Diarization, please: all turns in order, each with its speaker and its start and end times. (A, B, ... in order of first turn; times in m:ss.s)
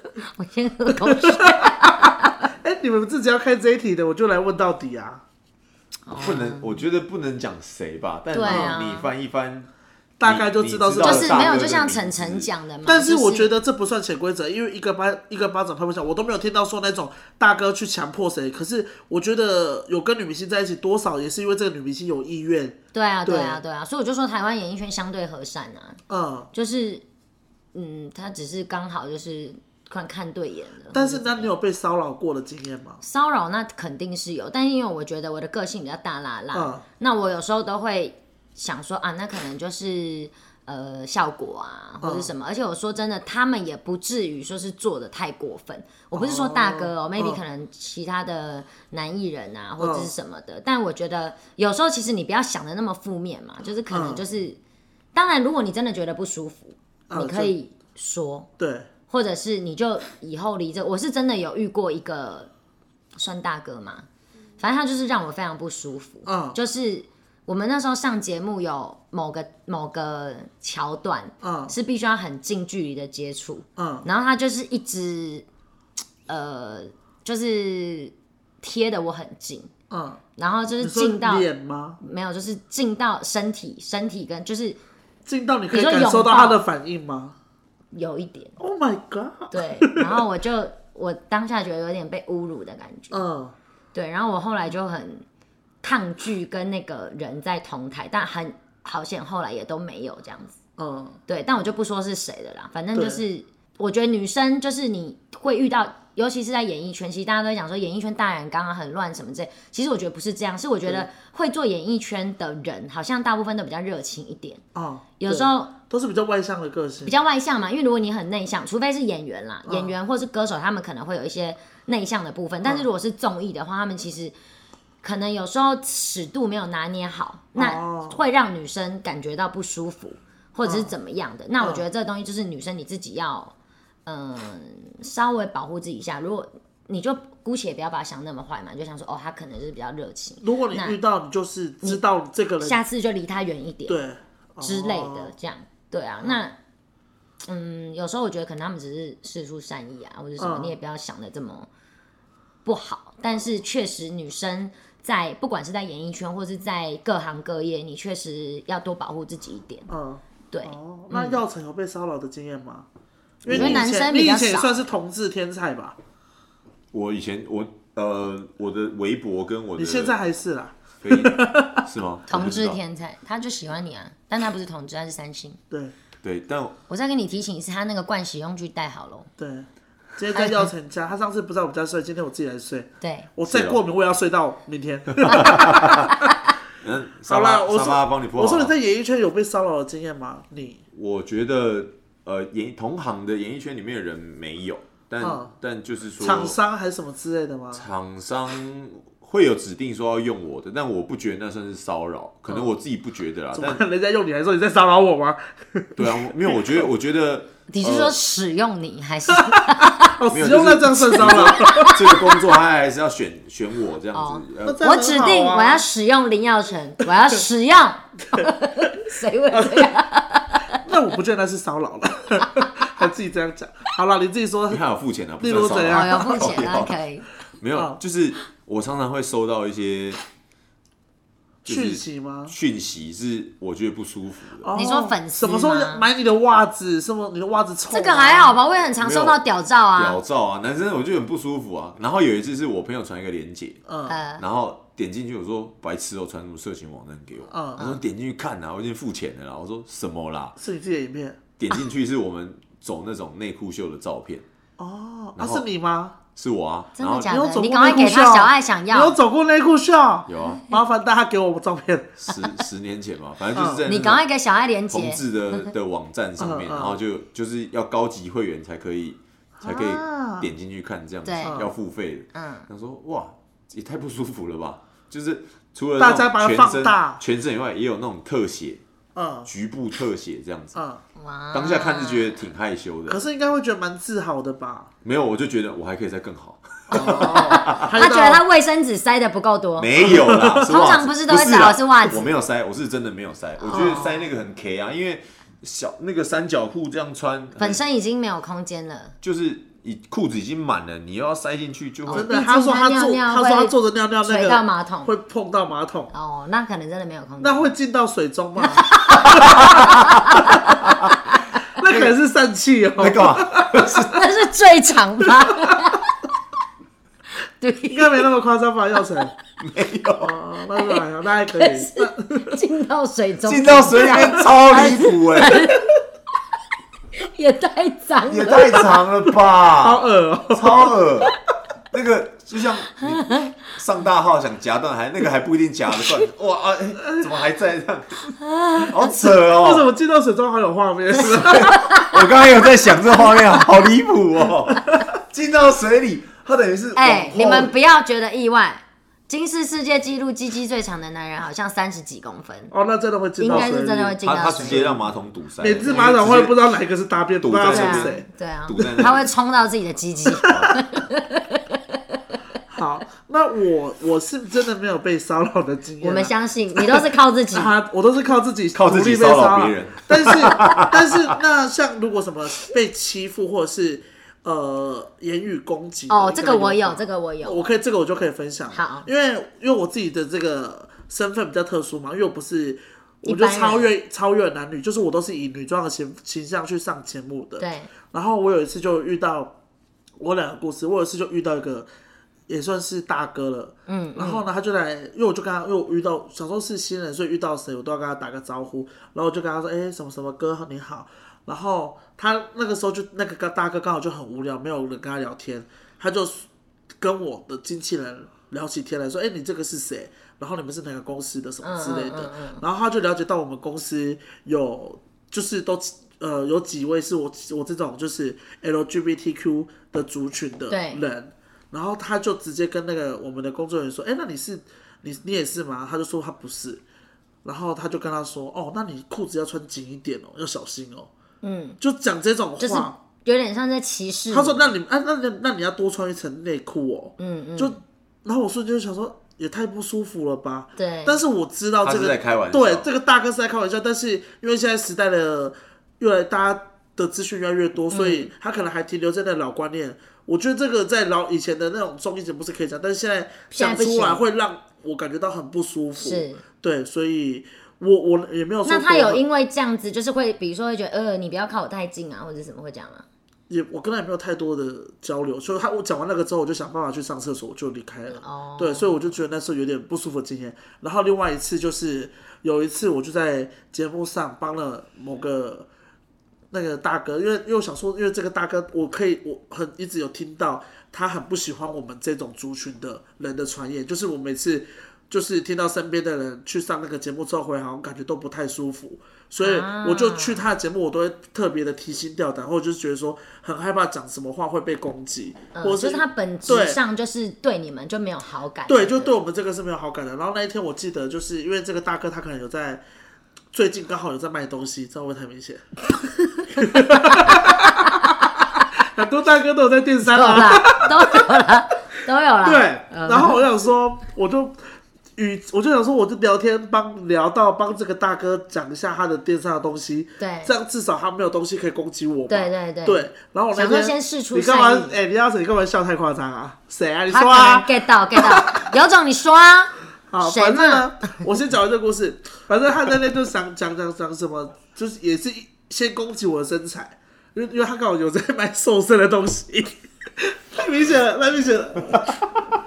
0:00.2-0:02.5 A
0:01.0-0:05.2 B
0:06.0-0:06.8 A
0:06.2-0:09.7 C
0:08.3-0:09.1 A
0:08.4-0:08.8 B
0:10.2-0:11.7 B
0:10.2-0:12.5 C
0:11.0-0:13.5 A
0:12.8-0:23.6 B
0:22.9-0:26.0 A
0:26.1-0:26.5 B
0:26.5-0:27.0 A
0:27.7-0:31.5 A
0:30.9-0:33.0 B
0:33.0-0:54.6 A
0:36.5-0:36.8 B
0:42.0-0:42.3 B
0:46.1-0:47.4 B
0:49.8-0:50.1 B
0:53.9-0:54.2 B
0:55.1-0:58.5 A
0:57.1-0:57.5 B
0:58.6-0:58.9 B
0:59.1-1:02.5 A
1:03.1-1:04.0 A
1:04.6-1:15.4 A
1:06.2-1:06.6 B
1:11.4-1:11.7 B
1:13.8-1:14.0 B
1:16.3-1:19.7 A
1:19.9-1:20.2 B
1:20.4-1:21.5 A
1:20.8-1:22.0 B
1:22.0-1:24.8 A
1:25.2-1:27.4 B
1:25.7-1:26.6 A
1:27.9-1:28.6 A
1:28.6-1:30.2 B
1:29.5-1:33.2 A
1:33.1-1:33.5 B
1:33.9-1:35.2 A
1:35.8-1:40.6 A
1:40.8-1:41.2 B
1:41.3-1:54.6 A
1:42.9-1:43.2 B
1:54.7-1:57.2 B
1:55.2-1:55.7 A
1:57.0-2:04.3 A
1:59.6-1:59.9 B
2:05.0-2:13.5 A
2:07.5-2:08.2 B
2:10.6-2:10.9 B
2:11.6-2:11.8 B
2:14.0-2:21.0 A
2:20.4-2:22.8 B
2:22.6-2:24.0 A
2:23.9-2:25.3 B
2:24.6-2:26.6 A
2:27.4-2:31.7 A
2:30.4-2:30.8 B
2:32.6-2:39.9 A
2:39.9-2:42.9 B
2:40.5-2:41.4 A
2:43.4-2:46.0 B
2:43.4-2:44.8 A
2:43.5-2:43.9 C
2:46.9-2:50.2 C
2:49.8-2:51.8 B
2:51.0-2:52.8 C
2:52.3-2:55.6 A
2:56.2-2:56.8 C
2:56.9-2:59.3 A
2:59.4-3:06.3 B
3:00.3-3:00.7 A
3:03.0-3:03.3 A
3:03.4-3:03.8 C
3:05.2-3:06.1 C
3:06.8-3:08.7 C
3:07.3-3:10.8 B
3:10.9-3:16.6 C
3:15.2-3:15.5 B
3:16.2-3:17.8 B
3:17.7-3:23.8 C
3:23.5-3:26.8 B
3:26.0-3:28.2 C
3:27.7-3:30.2 A
3:29.4-3:32.2 B
3:30.3-3:35.3 C
3:31.1-3:32.0 A
3:34.1-3:40.8 A
3:34.6-3:35.8 B
3:39.5-3:39.9 B
3:40.8-3:44.8 B
3:44.7-3:47.0 C
3:45.4-3:46.5 B
3:45.9-3:47.3 A
3:47.6-3:50.2 C
3:51.6-3:52.5 B
3:51.6-3:54.7 C
3:54.6-3:58.6 B
3:54.7-3:56.1 A
3:57.9-4:00.2 A
3:59.0-3:59.4 C
3:59.9-4:03.8 C
4:03.9-4:04.2 B
4:04.1-4:04.4 A
4:04.4-4:10.6 C
4:07.5-4:07.9 B
4:10.6-4:11.4 B
4:11.6-4:14.4 C
4:14.8-4:16.2 B
4:15.4-4:15.6 C
4:16.3-4:17.4 C
4:17.0-4:19.2 A
4:17.3-4:22.1 B
4:20.3-4:20.6 C
4:22.2-4:24.2 C
4:23.5-4:23.8 B
4:23.8-4:25.7 A
4:24.9-4:38.8 C
4:26.4-4:27.0 B
4:29.6-4:30.5 B
4:31.2-4:31.6 A
4:31.4-4:31.7 B
4:32.3-4:32.7 A
4:36.0-4:37.2 B
4:39.1-4:39.5 B
4:39.4-4:40.8 C
4:40.7-4:41.0 B
4:41.2-4:42.4 A
4:41.5-4:43.2 C
4:43.1-4:44.9 B
4:45.0-4:47.9 C
4:46.9-4:48.4 B
4:46.9-4:49.9 A
4:49.8-4:57.8 C
4:50.0-4:50.6 B
4:50.6-4:52.3 A
4:53.6-4:54.2 A
4:53.7-4:54.0 B
4:57.6-4:59.1 A
4:59.2-5:02.3 C
5:02.1-5:05.1 A
5:02.1-5:06.1 B
5:06.1-5:07.7 A
5:07.4-5:09.9 B
5:08.6-5:10.7 A
5:09.2-5:11.1 C
5:11.8-5:14.0 B
5:11.9-5:12.1 C
5:13.0-5:14.2 C
5:14.0-5:16.1 A
5:17.6-5:18.3 A
5:17.9-5:19.3 B
5:19.6-5:20.3 C
5:20.2-5:22.6 B
5:21.6-5:25.8 A
5:23.4-5:25.7 C
5:27.2-5:28.8 A
5:28.3-5:31.3 C
5:29.8-5:30.9 B
5:31.9-5:39.9 C
5:38.4-5:38.9 A
5:39.5-5:41.8 B
5:41.2-5:47.7 C
5:41.7-5:42.2 A
5:47.0-5:52.7 A
5:52.7-5:55.0 B
5:53.4-5:54.9 A
5:53.5-5:56.6 C
5:55.6-5:58.2 B
5:57.4-5:59.3 C
5:57.6-6:02.2 A
6:00.5-6:00.7 C
6:02.7-6:29.6 B
6:06.0-6:07.7 A
6:08.7-6:11.3 C
6:16.1-6:17.6 A
6:18.7-6:19.1 A
6:23.2-6:23.9 A
6:27.6-6:27.9 A
6:30.2-6:31.9 B
6:32.5-6:46.4 B
6:33.9-6:34.4 A
6:47.0-7:06.8 B
6:51.6-6:52.6 A
7:00.7-7:01.0 A
7:07.4-7:11.1 B
7:11.4-7:11.8 A
7:11.8-7:13.0 B
7:12.6-7:14.7 A
7:14.3-7:39.2 B
7:17.2-7:17.8 A
7:20.8-7:21.2 A
7:21.8-7:22.9 C
7:27.9-7:28.3 A
7:33.5-7:34.2 A
7:36.0-7:36.4 A
7:38.6-7:43.0 A
7:43.5-7:55.7 B
7:48.1-7:49.0 A
7:56.5-8:16.8 B
8:09.4-8:10.4 A
8:15.5-8:19.1 A
8:18.7-8:22.8 B
8:23.5-8:25.7 B
8:26.5-8:28.1 B
8:28.8-8:31.3 B
8:30.1-8:33.4 A
8:32.4-8:48.7 B
8:40.2-8:40.5 A
8:42.3-8:45.0 A
8:47.1-8:50.9 A
8:50.1-9:02.2 B